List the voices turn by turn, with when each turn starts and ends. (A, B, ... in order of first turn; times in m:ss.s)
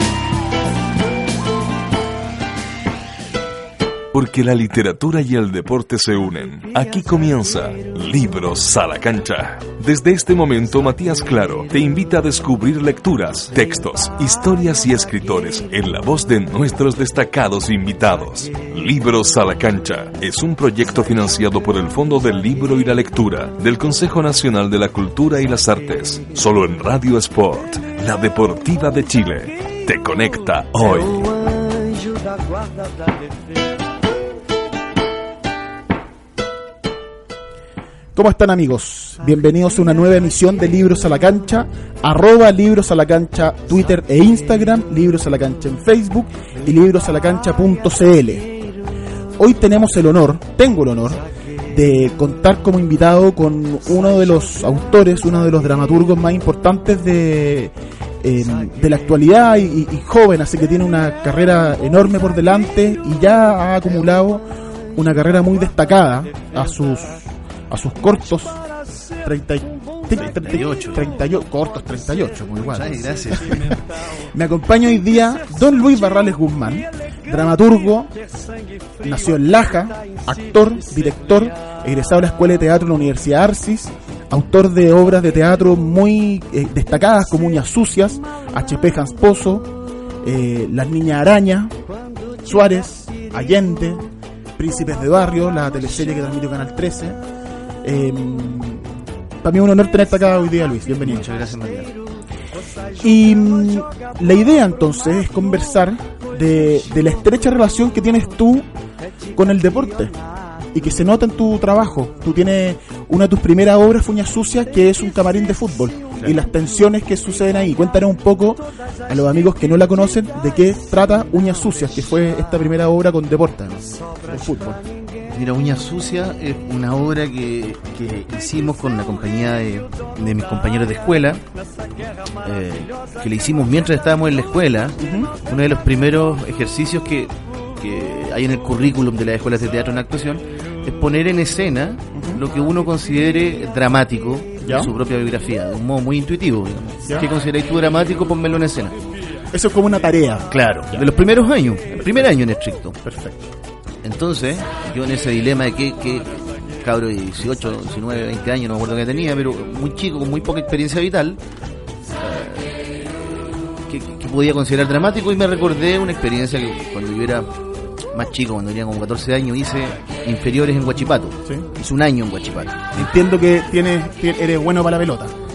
0:04.1-0:31.3 A
0:38.1-0:48.5 B
0:49.4-1:04.4 B
1:05.0-1:08.6 B
1:09.2-1:18.1 B
1:10.2-1:11.1 C
1:12.6-1:13.8 C
1:19.0-1:29.7 B
1:30.2-1:31.7 B
1:32.4-1:34.0 B
1:34.6-1:37.2 B
1:37.8-1:38.9 B
1:39.4-1:41.3 B
1:40.9-1:41.9 C
1:43.0-1:48.7 B
1:49.3-1:50.1 B
1:50.7-2:04.8 B
2:05.3-2:11.4 C
2:12.4-2:29.0 C
2:15.0-2:15.3 B
2:22.1-2:22.4 B
2:24.6-2:24.9 B
2:29.5-2:31.2 B
2:30.5-2:33.0 C
2:33.0-2:33.4 B
2:34.0-2:41.4 C
2:42.2-2:47.5 C
2:48.1-2:53.1 C
2:52.9-2:55.3 B